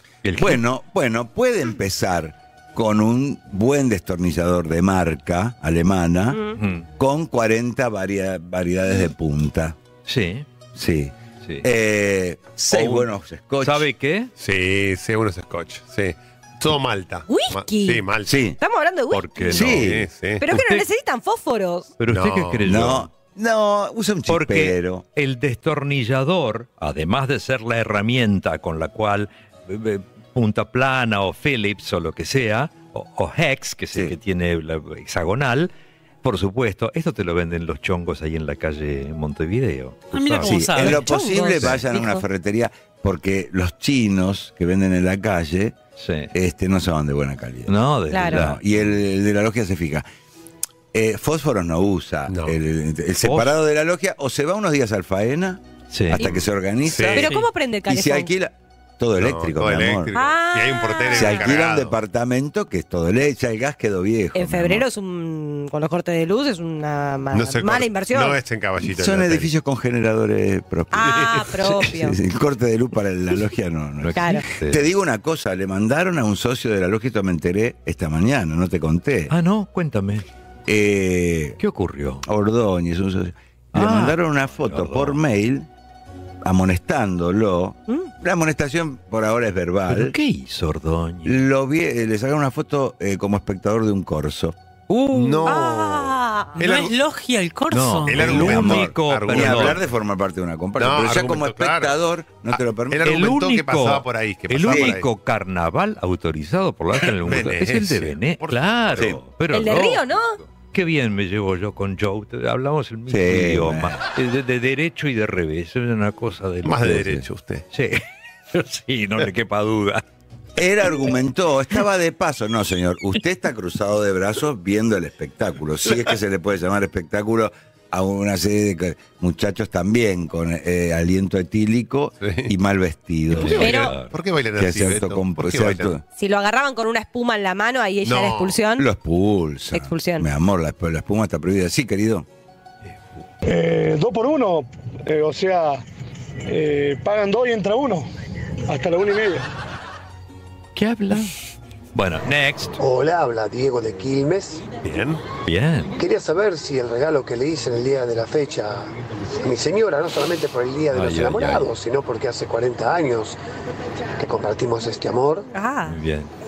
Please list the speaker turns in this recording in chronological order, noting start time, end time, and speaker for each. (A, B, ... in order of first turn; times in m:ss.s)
0:00.2-0:00.6 A
0:00.4-0:06.4 B
0:06.3-0:06.6 C
0:06.6-0:06.9 A
0:07.0-0:09.8 B
0:10.0-0:10.5 A
0:10.7-0:13.9 B
0:12.7-0:13.1 A
0:13.6-0:14.3 A
0:14.4-0:18.4 D
0:17.3-0:18.0 C
0:18.2-0:18.6 B
0:18.6-0:19.8 C
0:19.2-0:19.9 A
0:19.5-0:20.4 D
0:19.5-0:20.1 B
0:20.4-0:21.9 C
0:20.5-0:20.8 A
0:22.0-0:23.1 A
0:22.1-0:22.7 D
0:22.6-0:25.0 B
0:24.3-0:35.7 A
0:36.2-0:40.9 A
0:40.1-0:41.1 E
0:40.4-0:45.8 B
0:40.8-0:42.2 C
0:46.0-0:46.3 A
0:46.3-0:50.0 B
0:47.7-0:48.6 A
0:48.1-0:48.4 C
0:50.9-0:57.3 B
0:52.3-0:52.6 D
0:53.2-0:53.5 A
0:55.9-0:56.2 A
0:56.9-0:57.3 D
0:57.1-0:58.3 C
0:57.9-1:00.1 B
0:59.2-1:01.9 D
1:00.1-1:01.5 C
1:01.1-1:04.9 B
1:04.4-1:08.4 C
1:07.3-1:09.5 D
1:08.8-1:19.3 B
1:10.9-1:12.2 C
1:14.0-1:14.8 A
1:14.1-1:14.4 C
1:19.3-1:20.2 A
1:20.7-1:21.6 B
1:21.6-1:22.2 A
1:22.2-1:25.7 B
1:23.7-1:25.2 A
1:26.4-1:30.2 B
1:29.9-1:31.4 A
1:31.2-1:34.5 B
1:34.9-1:35.5 A
1:35.1-1:36.9 D
1:35.4-1:36.6 C
1:36.6-1:38.4 E
1:37.7-1:39.8 A
1:38.1-1:39.8 D
1:38.2-1:43.2 B
1:40.8-1:41.9 D
1:42.9-1:45.1 D
1:43.0-1:57.2 A
1:44.6-1:45.0 B
1:47.1-1:49.1 D
1:49.5-1:50.4 C
1:53.1-1:54.0 B
1:56.6-1:57.6 D
1:57.7-2:00.0 A
2:00.6-2:13.8 B
2:12.2-2:12.5 D
2:13.3-2:14.1 A
2:13.4-2:15.9 D
2:13.6-2:13.9 C
2:14.6-2:16.0 B
2:16.2-2:18.9 C
2:18.0-2:18.6 D
2:18.8-2:22.2 B
2:19.7-2:20.2 C
2:22.9-2:23.2 A
2:23.4-2:25.8 F
2:26.5-2:28.1 F
2:28.7-2:29.4 F
2:30.7-2:31.4 A
2:31.9-2:32.8 A
2:32.8-2:34.6 G
2:34.8-2:35.2 D
2:35.4-2:35.9 A
2:36.0-2:43.4 G
2:40.9-2:41.7 A
2:44.2-2:45.5 G
2:45.5-2:46.0 C
2:45.9-2:46.3 A